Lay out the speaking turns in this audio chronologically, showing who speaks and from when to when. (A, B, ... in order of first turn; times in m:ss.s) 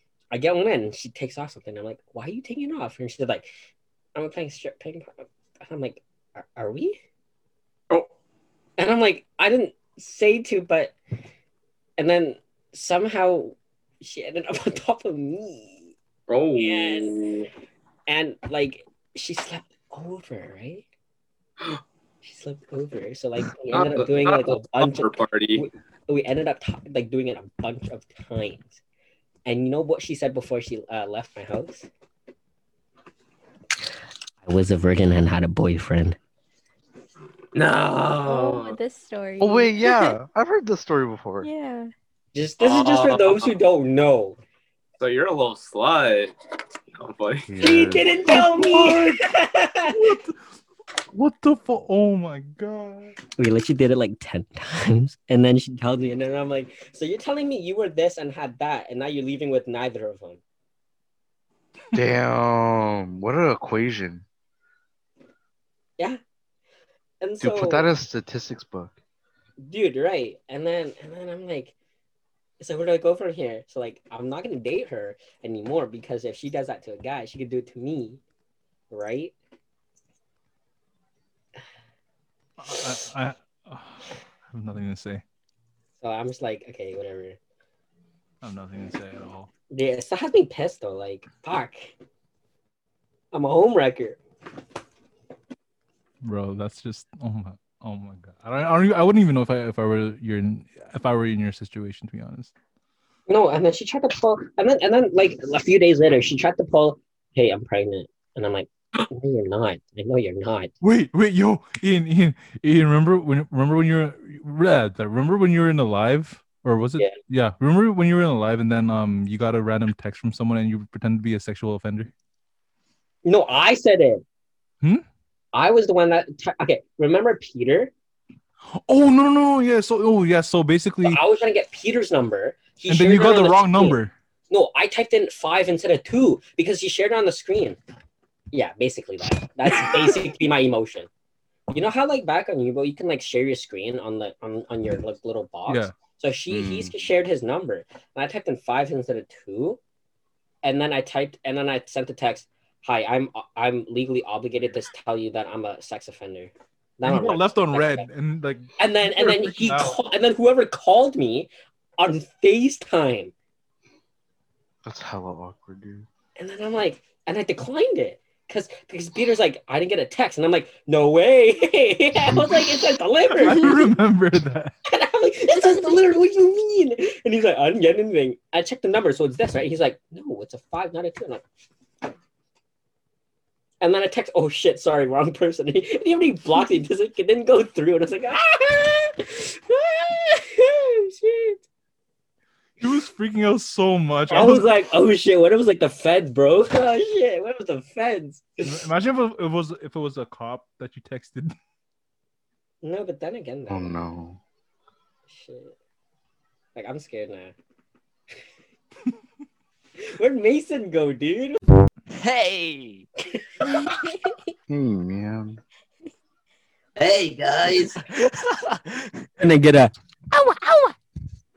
0:00.3-0:03.5 A
0:04.2-0:07.0 A
0:08.8-0:11.0 A
0:12.0-0:15.9 A
0:16.3-0:17.5 B
0:16.6-0:17.3 A
0:18.1-0:20.8 A
0:22.2-0:28.8 A
0:23.6-0:25.7 B
0:29.5-0:31.9 A
0:34.4-0:36.2 A
0:37.5-0:38.8 B
0:38.2-0:40.2 C
0:39.4-0:41.5 D
0:41.4-0:41.9 C
0:42.3-0:44.4 A
0:42.6-0:43.5 B
0:45.0-0:46.4 B
0:47.0-0:47.5 B
0:47.5-0:48.1 D
0:47.6-0:50.2 A
0:48.2-0:49.2 E
0:49.9-0:50.3 E
0:51.1-0:53.2 E
0:53.4-1:00.4 A
1:01.9-1:04.2 D
1:07.2-1:07.9 A
1:07.4-1:09.0 D
1:09.6-1:11.7 A
1:12.6-1:18.2 A
1:18.9-1:19.3 A
1:22.6-1:25.2 E
1:26.0-1:27.4 A
1:28.4-1:29.5 E
1:29.7-1:32.0 A
1:33.3-1:34.2 A
1:36.2-1:42.5 E
1:43.3-1:50.7 A
1:50.8-2:02.1 E
2:03.2-2:04.2 A
2:05.5-2:07.9 A
2:08.8-2:11.2 E
2:11.0-2:14.0 A
2:12.9-2:14.1 E
2:14.5-2:17.8 A
2:18.5-2:21.1 A
2:19.7-2:20.0 E
2:21.7-2:29.8 A
2:25.7-2:25.9 E
2:26.5-2:26.9 D
2:30.6-2:38.1 A
2:37.0-2:40.0 E
2:38.8-2:43.3 A
2:44.8-2:46.1 D
2:46.4-2:53.9 A
2:53.3-2:54.7 E
2:54.9-3:01.4 A
2:55.5-2:56.0 C
3:03.8-3:11.6 A
3:12.8-3:14.7 E
3:14.3-3:18.8 A
3:18.6-3:21.6 E
3:22.8-3:24.0 A
3:23.7-3:24.4 D
3:25.3-3:25.8 A
3:26.8-3:27.5 A
3:30.0-3:31.6 A
3:32.1-3:33.1 F
3:33.2-3:33.6 A
3:33.7-3:34.4 C
3:34.7-3:35.6 D
3:37.0-3:38.0 B
3:38.1-3:39.1 F
3:39.4-3:40.9 A